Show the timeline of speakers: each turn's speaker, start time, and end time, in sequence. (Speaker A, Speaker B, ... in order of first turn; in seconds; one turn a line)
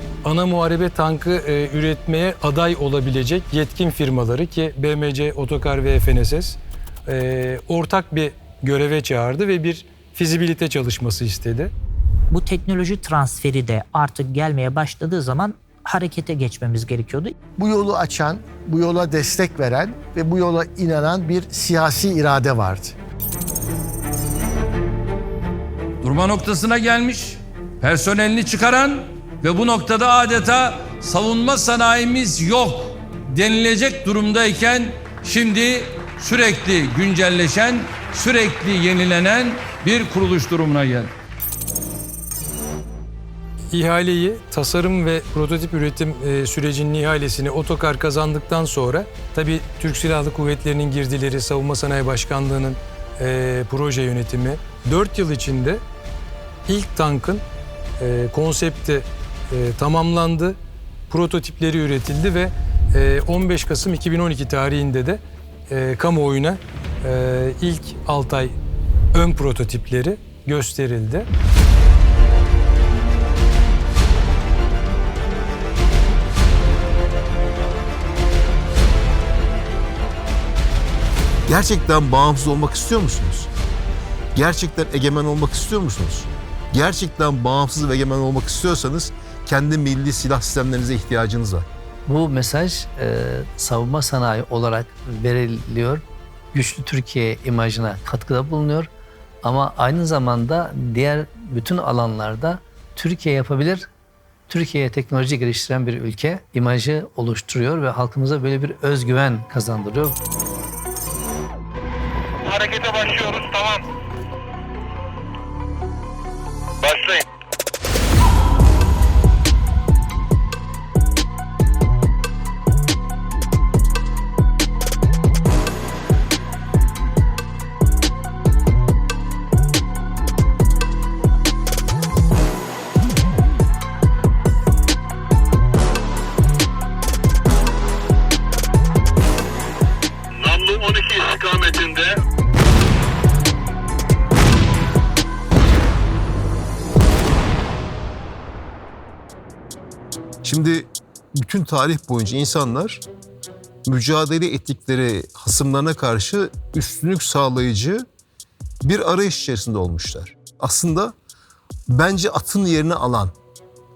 Speaker A: 0.2-11.7
Speaker B: 12.3-17.3
Speaker C: 17.6-22.9
Speaker D: 26.0-41.1
Speaker A: 43.7-55.8
Speaker A: 56.7-57.4
Speaker A: 58.0-60.6
Speaker A: 61.1-68.6
Speaker A: 69.1-71.3
Speaker E: 81.5-83.5
Speaker E: 84.3-91.7
Speaker F: 92.1-98.9
Speaker F: 99.4-103.9
Speaker F: 104.5-110.2
Speaker G: 112.4-113.8
Speaker G: 116.8-117.2
Speaker G: 140.3-142.2
Speaker E: 150.4-153.0
Speaker E: 153.9-158.1
Speaker E: 158.8-161.1
Speaker E: 161.9-163.3